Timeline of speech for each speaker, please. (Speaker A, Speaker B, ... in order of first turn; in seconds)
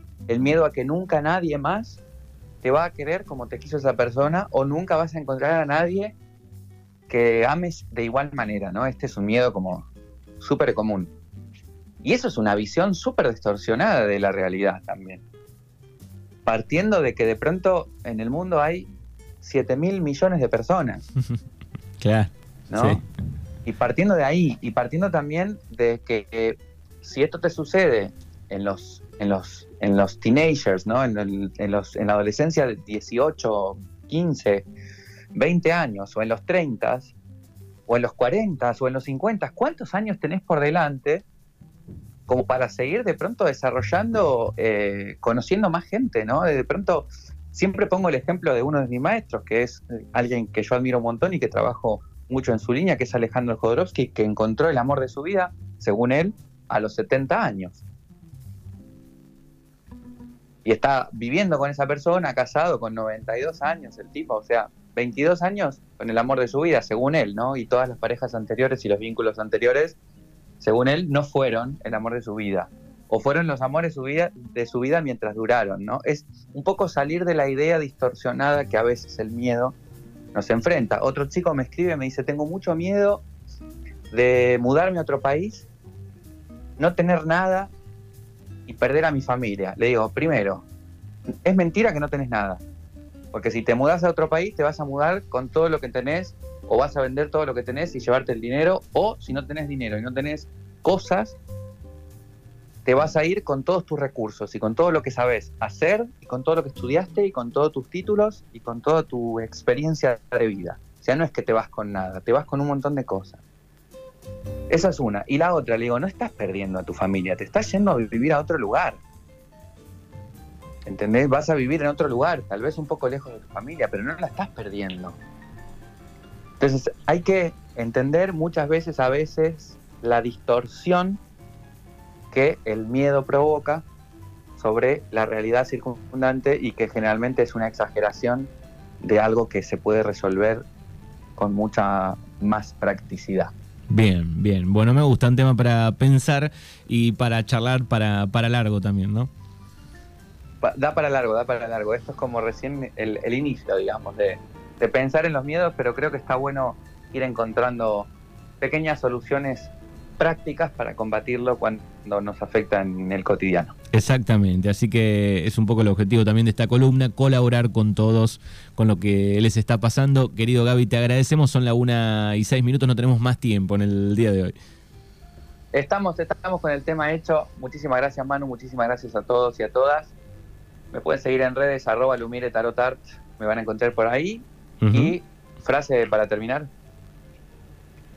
Speaker A: 0.3-2.0, 2.6-6.2, 7.1-9.9, 10.4-11.1, 12.0-15.2, 16.4-18.9, 19.4-21.0, 22.7-23.0, 23.6-34.6, 35.3-37.1, 37.9-41.2, 42.3-57.8, 60.6-70.0, 70.6-79.8, 80.3-83.2, 84.1-85.7, 86.8-87.7, 88.7-90.7, 91.4-92.6, 93.3-101.4, 102.8-113.4, 114.7-119.0, 120.8-125.2, 126.6-131.2, 132.3-133.8, 134.6-140.7, 141.4-143.5, 150.6-163.7, 175.7-180.1, 180.9-186.7
Speaker B: 22.0-23.0, 143.9-149.3, 163.9-174.6, 184.8-185.1